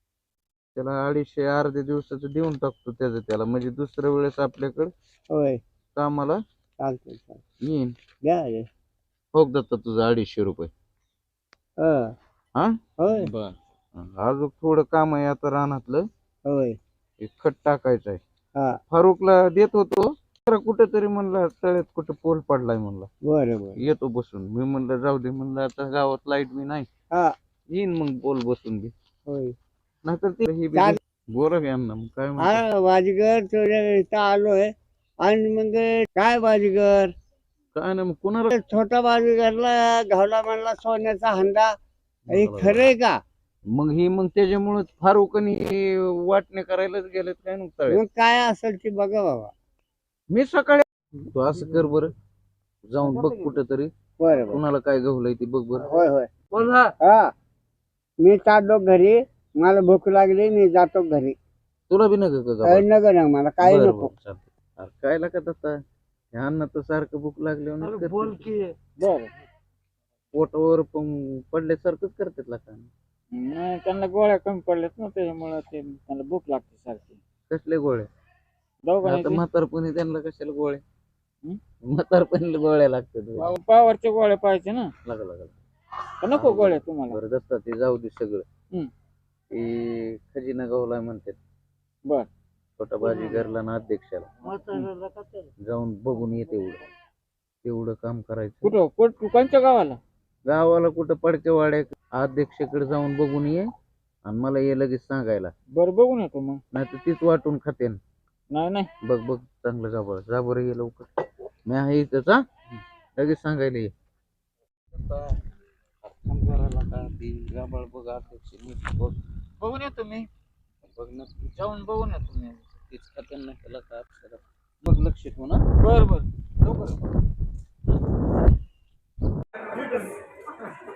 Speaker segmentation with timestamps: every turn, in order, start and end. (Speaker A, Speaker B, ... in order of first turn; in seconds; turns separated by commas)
Speaker A: 0.7-4.9, Speaker B: 5.3-5.6, Speaker A: 6.0-6.4, Speaker B: 6.8-7.4, Speaker A: 7.6-7.9, Speaker B: 8.2-8.7, Speaker A: 9.3-10.7, Speaker B: 11.8-12.1, Speaker A: 12.6-16.1, Speaker B: 13.0-13.3, Speaker B: 16.4-16.8, Speaker A: 17.2-18.2, Speaker B: 18.5-18.8, Speaker A: 18.9-23.1, Speaker B: 23.2-23.8, Speaker A: 23.8-26.9, Speaker A: 27.7-28.9, Speaker B: 29.3-29.6, Speaker A: 30.0-32.6, Speaker B: 32.4-37.1, Speaker A: 37.7-38.5, Speaker B: 38.5-41.7, Speaker A: 42.2-42.9, Speaker B: 42.3-43.2, Speaker A: 43.7-48.0, Speaker B: 47.9-49.5, Speaker A: 50.3-52.1, Speaker A: 52.9-55.9, Speaker B: 54.2-54.6, Speaker B: 55.8-56.3, Speaker A: 56.5-56.9, Speaker B: 57.0-57.3, Speaker B: 58.2-61.4, Speaker A: 61.9-62.8, Speaker B: 62.6-64.1, Speaker A: 63.6-65.8, Speaker A: 66.3-68.5, Speaker C: 67.8-69.3, Speaker A: 70.3-72.9, Speaker C: 73.3-77.2, Speaker A: 77.5-78.1, Speaker C: 78.8-79.4, Speaker A: 79.0-80.8, Speaker A: 81.8-83.5, Speaker C: 83.4-84.9, Speaker A: 85.0-85.6, Speaker C: 86.2-87.2, Speaker A: 86.3-88.4, Speaker A: 89.5-91.4, Speaker A: 92.8-94.5, Speaker C: 93.0-93.5, Speaker C: 94.7-94.9, Speaker A: 95.6-96.8, Speaker A: 97.6-98.7, Speaker C: 98.6-100.0, Speaker A: 100.5-103.7, Speaker A: 104.2-105.5, Speaker C: 105.7-106.6, Speaker A: 106.7-108.0, Speaker C: 108.5-108.9, Speaker A: 109.0-112.4, Speaker A: 113.2-113.9, Speaker A: 114.9-115.4, Speaker A: 116.0-119.2, Speaker C: 119.6-120.3, Speaker A: 121.0-121.5, Speaker C: 121.5-122.6, Speaker A: 122.9-125.6, Speaker C: 125.8-126.3, Speaker A: 126.6-127.0